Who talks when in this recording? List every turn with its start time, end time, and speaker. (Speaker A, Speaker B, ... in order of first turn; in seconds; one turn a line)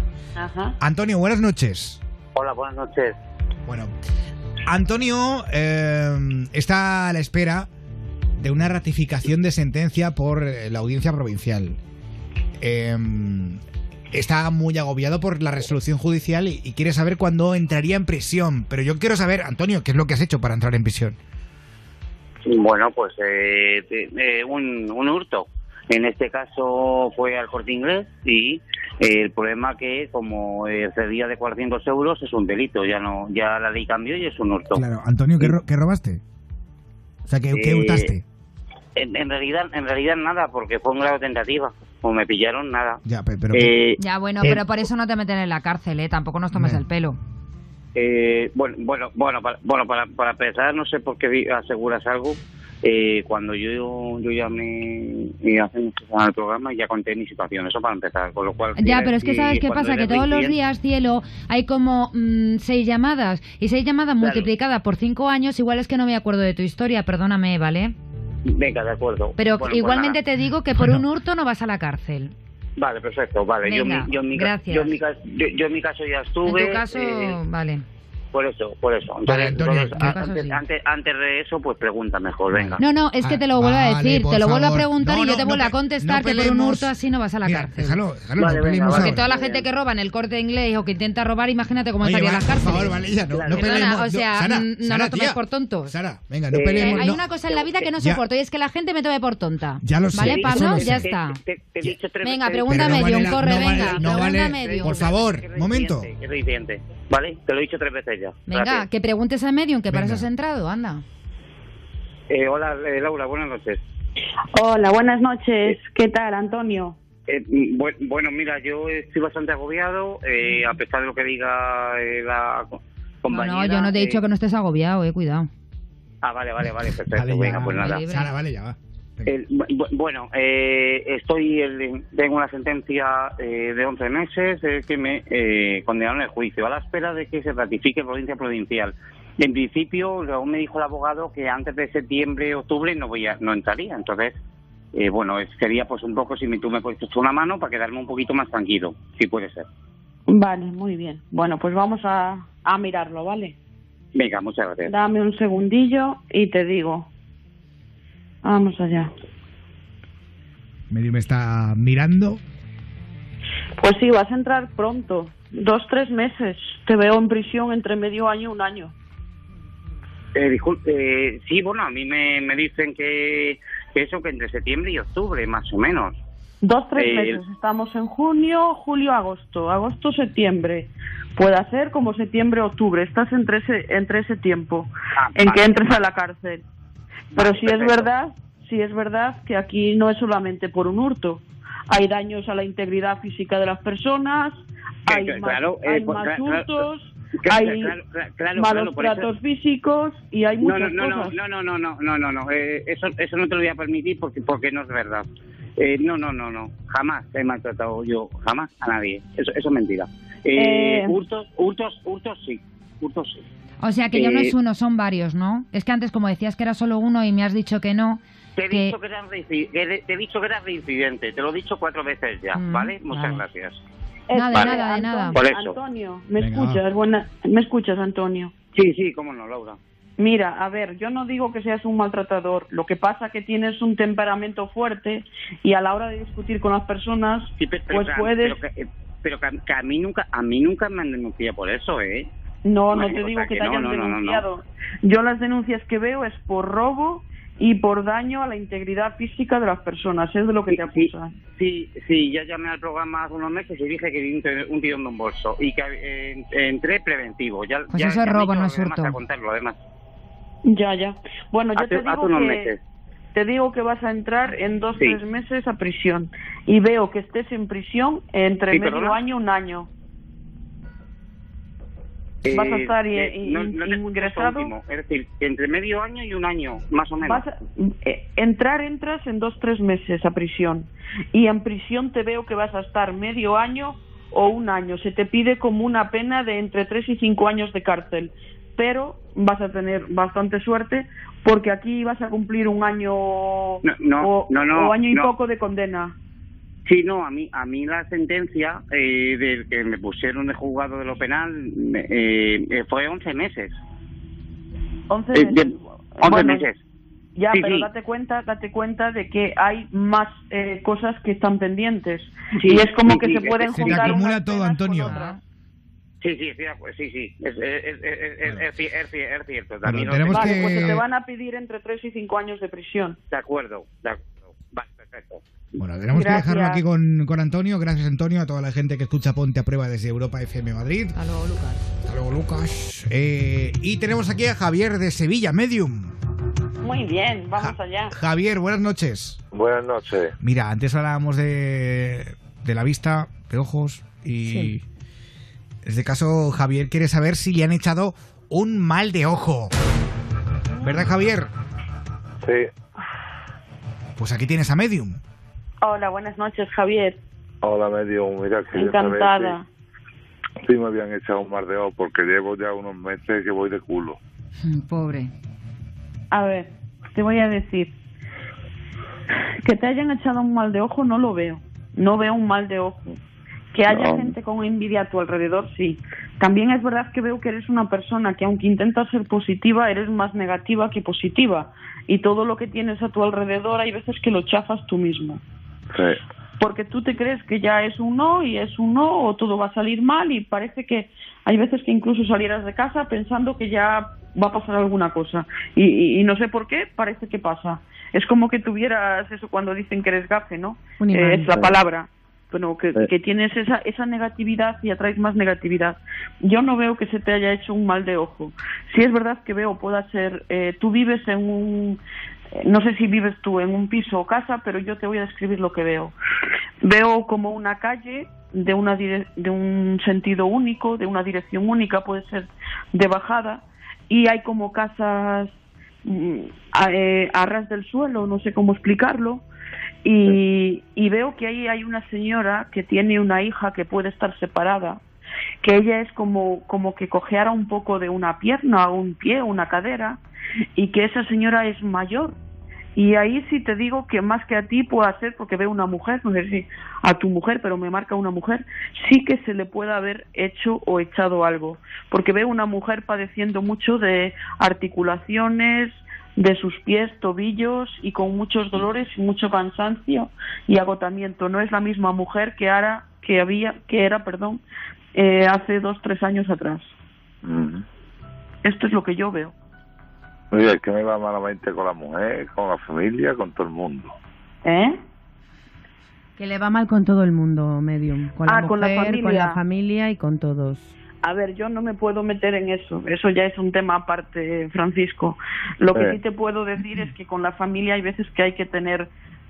Speaker A: 0.4-0.8
Speaker B: 0.8-2.0
Speaker C: 2.4-3.2
Speaker B: 3.7-3.9
Speaker B: 4.7-7.7
Speaker B: 8.4-11.8
Speaker B: 12.6-21.2
Speaker C: 22.5-34.8
Speaker B: 34.7-36.2
Speaker B: 37.3-38.2
Speaker C: 37.5-38.1
Speaker C: 39.0-43.0
Speaker B: 43.0-43.7
Speaker C: 43.5-44.5
Speaker D: 44.0-47.2
Speaker B: 46.5-46.8
Speaker C: 48.0-60.5
Speaker D: 58.8-68.0
Speaker C: 64.2-64.5
Speaker C: 68.5-70.2
Speaker D: 69.4-72.3
Speaker B: 70.7-71.1
Speaker C: 72.8-77.4
Speaker D: 73.7-75.0
Speaker D: 76.5-77.8
Speaker C: 78.3-82.8
Speaker B: 79.3-80.2
Speaker D: 80.0-80.6
Speaker B: 82.5-86.9
Speaker D: 82.8-88.0
Speaker B: 87.4-89.2
Speaker C: 88.4-89.7
Speaker D: 88.9-96.0
Speaker B: 92.0-97.2
Speaker C: 93.2-94.0
Speaker C: 96.5-97.9
Speaker D: 96.8-101.4
Speaker B: 98.0-98.2
Speaker B: 99.8-101.1
Speaker C: 100.2-108.8
Speaker D: 102.2-105.2
Speaker B: 102.7-106.1
Speaker D: 108.5-111.0
Speaker B: 109.9-110.3
Speaker C: 112.3-113.8
Speaker A: 114.5-117.0
Speaker C: 117.3-124.2
Speaker D: 123.3-125.5
Speaker C: 126.2-128.0
Speaker B: 127.1-129.3
Speaker D: 127.5-128.3
Speaker C: 129.3-144.4
Speaker C: 144.9-149.7
Speaker A: 150.3-153.6
Speaker C: 154.2-154.9
Speaker A: 154.9-157.1
Speaker A: 158.4-159.1
Speaker B: 160.9-162.4
Speaker A: 163.8-168.9
Speaker C: 170.3-176.2
Speaker A: 176.6-186.6
Speaker C: 176.9-177.4
Speaker C: 185.2-185.8
Speaker C: 187.3-188.1
Speaker A: 187.3-197.9
Speaker C: 195.1-196.8
Speaker C: 197.4-199.2
Speaker A: 198.5-201.3
Speaker C: 200.6-205.3
Speaker C: 205.8-213.4
Speaker A: 210.6-211.2
Speaker D: 213.8-218.9
Speaker C: 214.1-214.5
Speaker C: 218.6-223.8
Speaker D: 222.6-223.4
Speaker A: 224.3-228.6
Speaker D: 224.3-225.4
Speaker C: 225.3-225.8
Speaker B: 226.4-226.8
Speaker C: 228.7-229.8
Speaker A: 230.2-238.6
Speaker C: 237.6-242.3
Speaker A: 242.7-251.4
Speaker C: 242.9-244.4
Speaker C: 250.7-251.1
Speaker C: 251.6-259.8
Speaker D: 257.9-259.2
Speaker A: 260.6-262.7
Speaker C: 261.8-262.8
Speaker A: 263.4-269.9
Speaker C: 268.7-269.2
Speaker C: 272.4-277.4
Speaker A: 272.5-274.7
Speaker A: 277.2-296.1
Speaker C: 293.8-295.3
Speaker C: 296.9-303.8
Speaker A: 305.1-306.6
Speaker C: 305.3-306.8
Speaker A: 307.4-315.4
Speaker C: 307.5-307.9
Speaker B: 313.1-315.2
Speaker D: 315.1-315.4
Speaker C: 316.2-320.9
Speaker B: 319.9-321.0
Speaker A: 320.3-323.2
Speaker C: 323.3-325.4
Speaker B: 325.8-331.2
Speaker A: 326.1-326.8
Speaker D: 331.1-331.8
Speaker B: 332.1-336.2
Speaker A: 336.8-338.1
Speaker B: 337.6-339.4
Speaker E: 339.5-340.3
Speaker B: 340.4-344.8
Speaker B: 345.8-349.7
Speaker B: 350.8-351.5
Speaker E: 352.4-352.7
Speaker B: 354.2-355.2
Speaker A: 355.8-357.2
Speaker E: 357.6-359.6
Speaker A: 358.8-359.6
Speaker E: 360.6-364.2
Speaker D: 364.6-365.3
Speaker A: 366.3-367.9
Speaker A: 369.6-373.0
Speaker A: 373.7-385.4
Speaker E: 373.9-374.4
Speaker E: 385.9-386.2
Speaker A: 386.6-412.0
Speaker F: 401.0-401.7
Speaker A: 412.6-416.1
Speaker A: 416.8-425.5
Speaker A: 426.0-429.4
Speaker A: 430.0-435.0
Speaker A: 435.6-440.2
Speaker A: 440.8-442.4
Speaker A: 442.9-464.6
Speaker A: 465.1-466.9
Speaker E: 467.4-467.8
Speaker A: 468.6-469.5
Speaker E: 470.5-474.1
Speaker A: 474.6-475.0
Speaker F: 476.4-480.9
Speaker A: 478.5-479.6
Speaker A: 481.2-489.1
Speaker E: 485.9-486.2